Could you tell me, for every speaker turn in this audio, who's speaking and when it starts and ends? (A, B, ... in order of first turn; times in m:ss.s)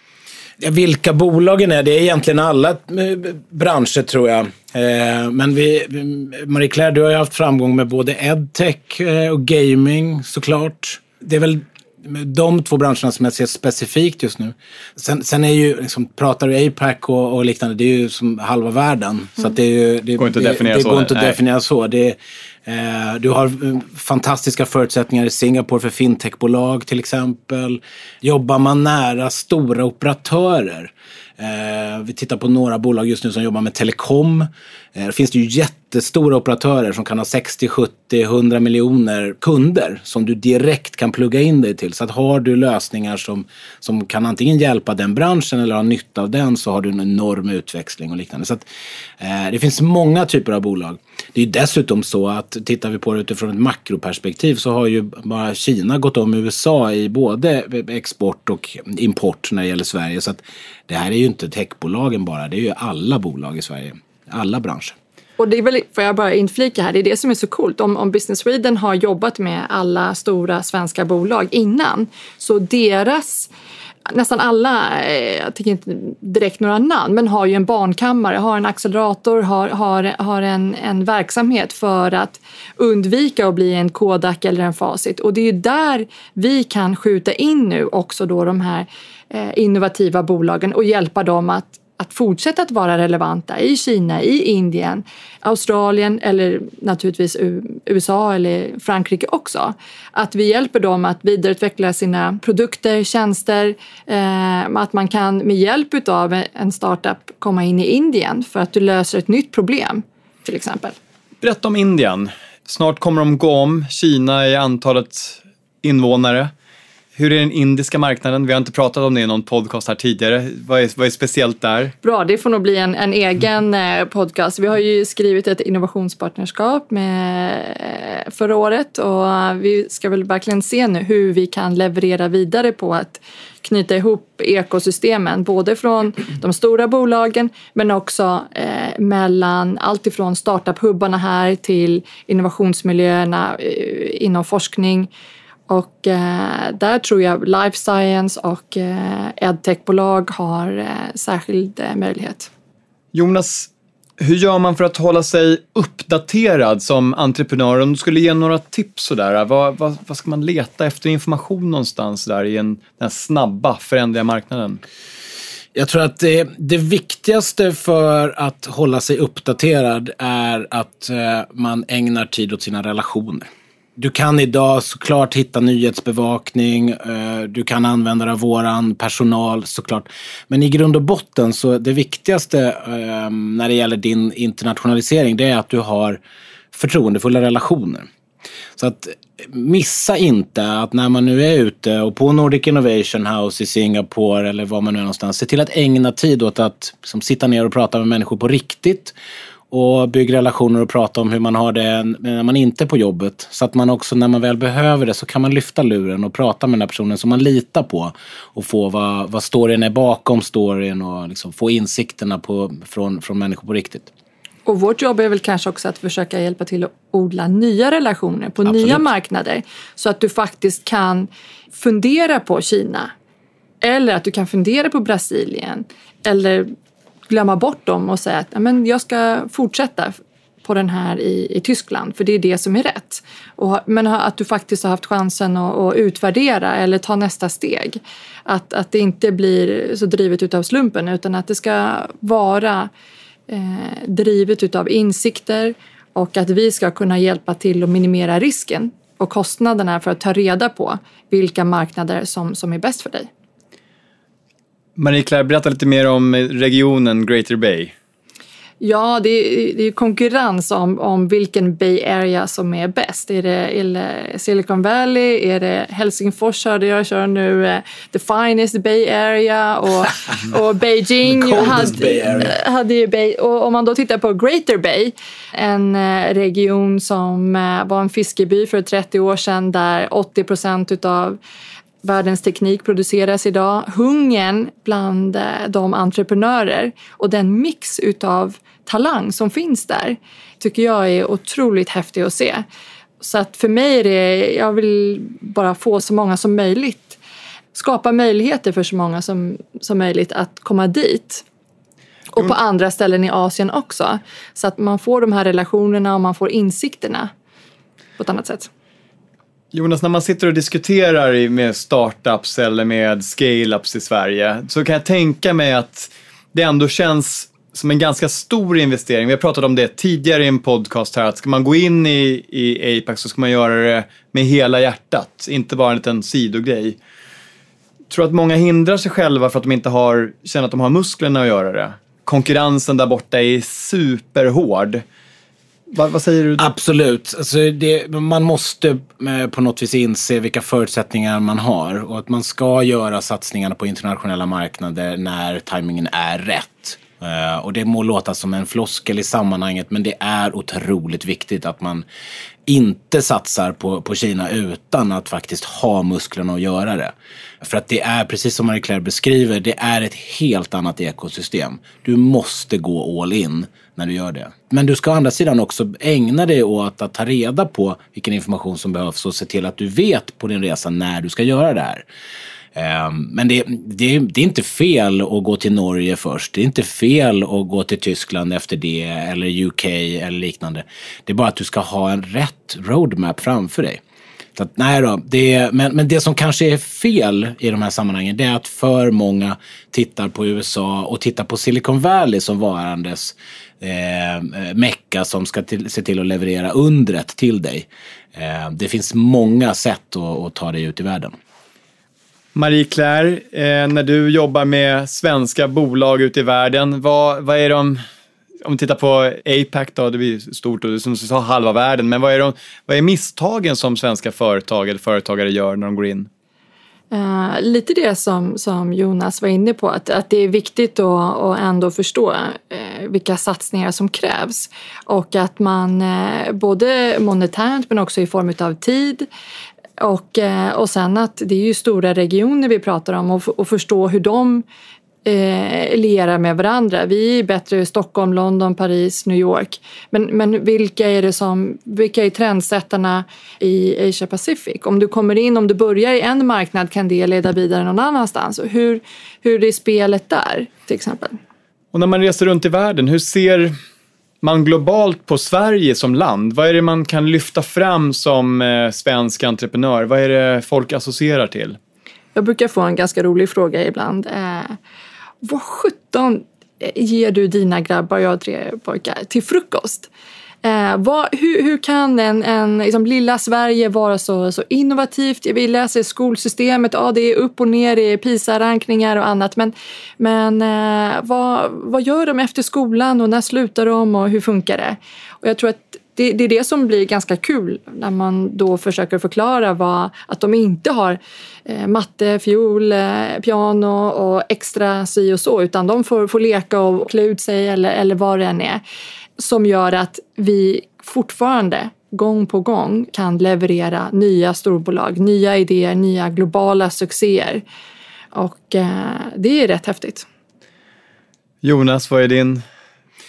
0:00.6-0:48.7 A
0:20.2-0:21.4 B
0:49.2-1:05.0 A
1:05.4-1:13.5 C
1:14.1-1:51.0 C
1:51.4-1:56.5 B
1:57.2-2:01.9 B
2:02.0-2:25.1 C
2:25.7-2:32.5 C
2:33.1-2:44.8 B
2:45.8-3:06.2 A
3:06.7-3:08.1 A
3:08.8-3:19.1 A
3:19.7-3:34.1 A
3:34.7-3:43.1 C
3:38.6-3:39.0 A
3:43.8-3:46.7 C
3:47.3-4:02.9 C
4:03.5-4:13.3 C
4:15.0-4:17.9 B
4:18.8-4:41.4 C
4:31.3-4:32.5 A
4:42.0-4:52.6 C
4:53.2-4:57.2 C
4:57.7-5:01.4 C
5:02.3-5:07.3 C
5:08.2-5:08.7 C
5:09.7-5:27.0 B
5:28.1-5:35.0 B
5:35.9-5:36.6 B
5:36.6-5:52.0 A
5:52.7-6:12.0 A
6:12.8-6:24.0 A
6:24.6-6:41.3 A
6:42.6-6:48.0 B
6:48.6-6:56.3 B
6:57.1-7:09.3 C
7:10.0-7:14.6 C
7:15.2-7:31.4 C
7:31.9-7:33.7 B
7:34.4-7:41.8 B
7:42.4-7:44.8 C
7:45.4-7:50.1 C
7:50.6-8:18.8 C
8:19.4-8:27.6 C
8:28.3-8:30.3 C
8:31.6-8:32.6 B